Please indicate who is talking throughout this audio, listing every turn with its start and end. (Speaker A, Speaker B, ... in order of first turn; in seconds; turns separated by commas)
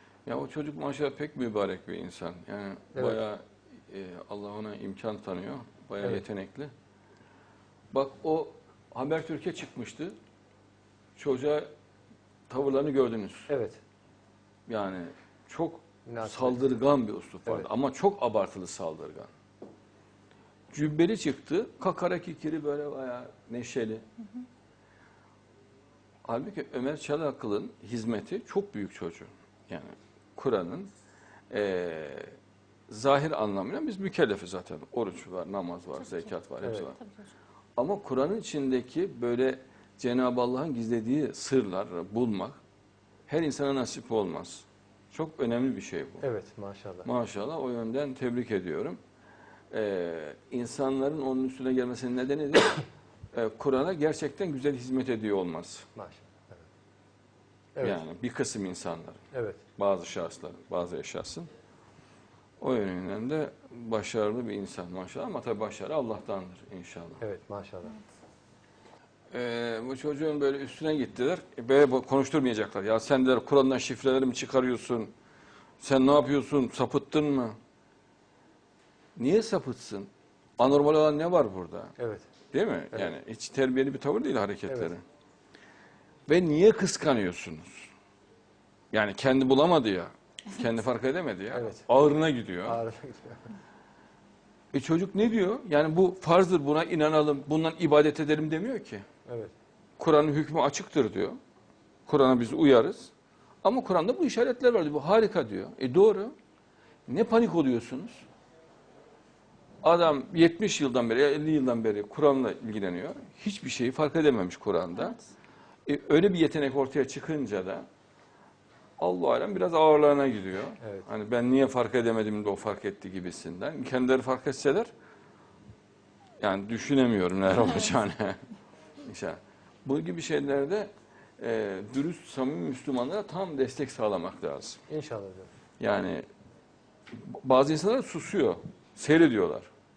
Speaker A: 0.2-6.7, Speaker B: 2.9-3.2, Speaker A: 7.9-10.1, Speaker A: 11.2-11.7, Speaker A: 12.5-13.5, Speaker B: 13.5-13.8, Speaker A: 14.7-19.3, Speaker B: 16.1-16.7, Speaker A: 20.7-24.0, Speaker A: 26.2-30.9, Speaker A: 31.5-32.3, Speaker A: 32.9-37.0, Speaker B: 36.6-36.9, Speaker A: 37.8-42.6, Speaker A: 43.3-46.2, Speaker B: 46.2-47.1, Speaker A: 47.0-49.0, Speaker A: 49.7-55.9, Speaker B: 56.0-56.6, Speaker B: 57.7-58.0, Speaker A: 57.8-59.2, Speaker B: 59.3-59.6, Speaker A: 59.8-61.5, Speaker A: 62.6-67.2, Speaker B: 67.2-68.0, Speaker A: 69.3-75.1, Speaker A: 75.8-77.5, Speaker A: 79.2-81.9, Speaker B: 82.0-82.2, Speaker A: 82.5-85.0, Speaker A: 86.3-87.9, Speaker A: 88.9-92.8, Speaker B: 91.5-91.9, Speaker B: 92.7-93.5, Speaker A: 94.7-99.0, Speaker B: 99.2-99.5, Speaker A: 100.0-101.4, Speaker A: 102.1-103.1, Speaker A: 103.6-106.3, Speaker A: 107.1-108.2, Speaker A: 109.8-115.2, Speaker A: 115.8-117.8, Speaker A: 119.0-124.9, Speaker B: 120.8-121.1, Speaker A: 126.4-128.4, Speaker A: 129.0-134.8, Speaker B: 134.9-135.5, Speaker A: 135.8-136.2, Speaker A: 137.1-139.7